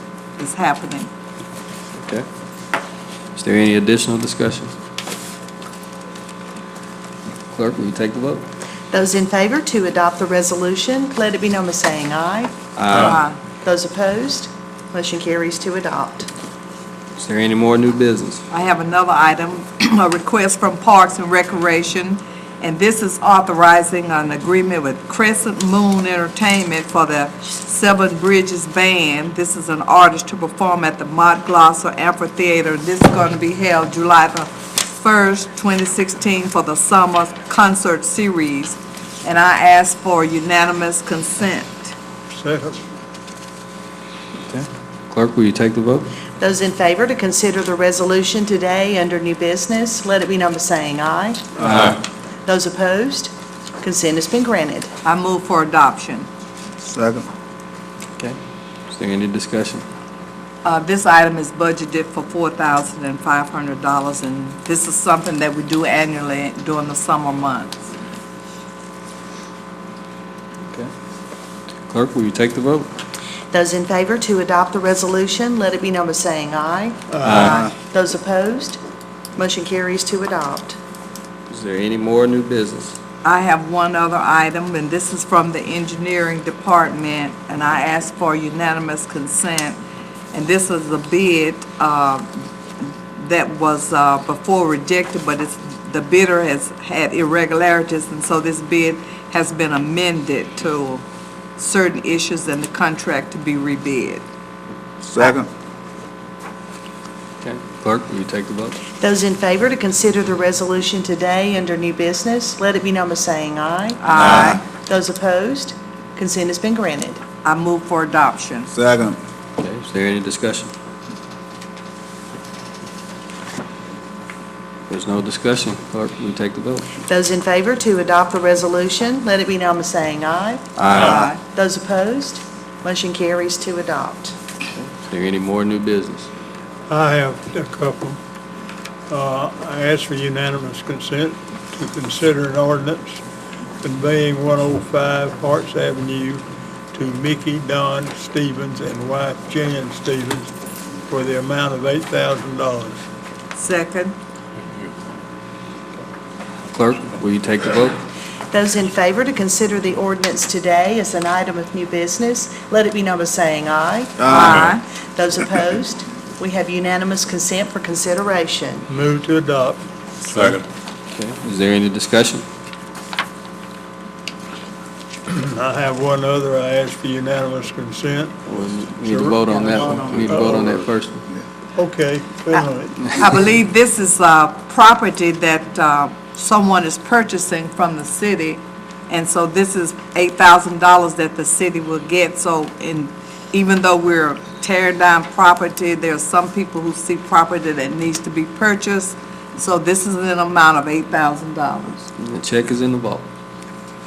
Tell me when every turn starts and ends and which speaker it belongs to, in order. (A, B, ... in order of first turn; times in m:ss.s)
0:00.4-0:01.1 A
0:02.0-0:02.2 B
0:03.4-0:04.7 B
0:07.5-0:08.4 B
0:08.9-0:12.5 C
0:12.8-0:13.2 B
0:13.0-0:13.4 A
0:13.6-0:16.3 C
0:17.2-0:18.4 B
0:18.5-0:41.9 A
0:42.3-0:42.8 D
0:44.4-0:46.1 B
0:46.4-0:51.8 C
0:51.7-0:52.0 B
0:52.4-0:54.9 C
0:55.0-0:56.3 A
0:56.8-0:57.3 E
0:58.9-0:59.8 B
1:00.6-1:07.8 A
1:11.9-1:12.9 B
1:13.5-1:17.0 C
1:17.1-1:17.5 D
1:17.2-1:17.7 B
1:17.7-1:18.8 C
1:19.4-1:20.8 C
1:21.5-1:23.0 B
1:23.2-1:29.8 A
1:30.3-1:41.0 A
1:41.6-1:44.2 A
1:45.0-1:45.5 E
1:47.4-1:48.8 B
1:49.0-1:57.2 C
1:54.0-1:54.6 A
1:54.1-1:54.6 E
1:57.4-1:58.7 A
1:58.7-1:59.2 E
1:59.6-2:00.7 B
2:04.9-2:06.9 B
2:07.0-2:14.3 C
2:10.8-2:11.2 B
2:11.0-2:11.4 A
2:15.0-2:16.3 B
2:16.9-2:18.2 D
2:19.1-2:23.2 D
2:23.8-2:26.4 D
2:26.9-2:30.5 D
2:31.1-2:33.0 D
2:33.5-2:34.2 A
2:36.7-2:38.0 B
2:38.5-2:48.8 C
2:44.2-2:44.7 E
2:44.3-2:44.8 A
2:48.9-2:50.5 D
2:51.1-2:52.4 B
2:55.3-2:58.4 D
2:58.5-3:01.2 B
2:59.0-3:00.8 D
2:59.8-3:00.2 A
3:01.7-3:03.1 D
3:03.0-3:22.0 A
3:22.2-3:23.2 B